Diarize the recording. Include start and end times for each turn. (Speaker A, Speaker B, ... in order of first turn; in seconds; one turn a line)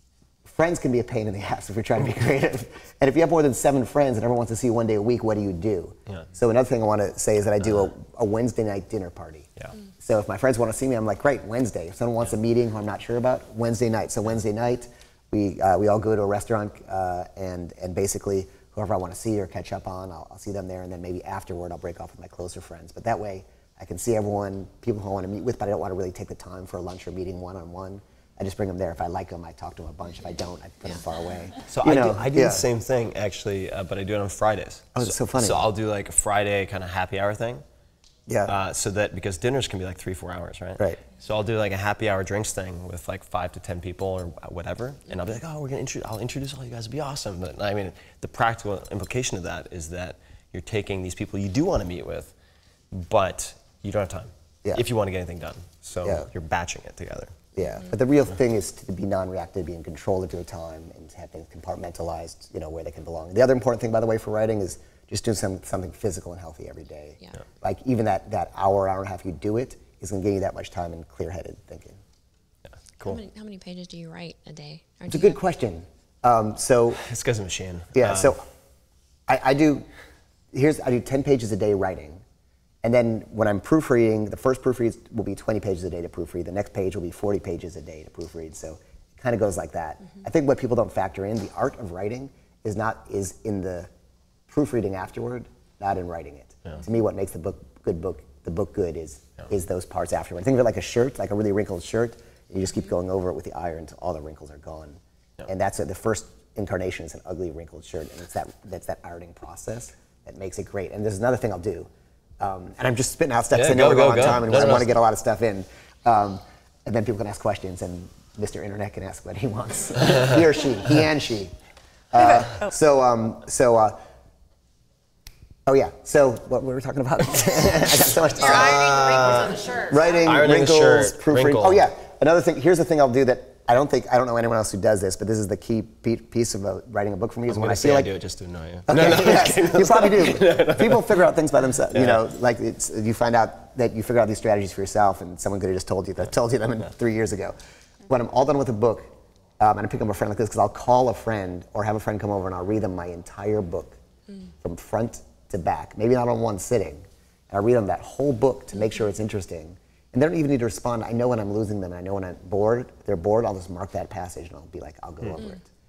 Speaker A: 0.5-9.5
Speaker B: 7.6-7.9
Speaker A: 10.0-32.7
Speaker B: 31.7-37.6
Speaker A: 35.0-35.7
Speaker A: 38.3-38.5
Speaker B: 38.5-52.3
Speaker B: 52.9-57.4
Speaker A: 57.6-72.0
Speaker C: 73.0-75.4
Speaker A: 75.1-77.0
Speaker B: 77.0-78.3
Speaker A: 78.0-78.4
Speaker A: 79.3-79.9
Speaker A: 80.5-82.2
Speaker A: 82.8-93.9
Speaker A: 94.5-111.9
Speaker A: 112.4-121.5
Speaker B: 113.5-114.9
Speaker A: 122.1-124.0
Speaker A: 125.7-129.0
Speaker B: 128.4-129.7
Speaker C: 128.4-130.0
Speaker A: 129.8-138.1
Speaker B: 130.2-131.8
Speaker B: 137.5-141.2
Speaker A: 138.9-147.6
Speaker B: 141.9-142.2
Speaker A: 148.1-154.0
Speaker A: 154.6-165.6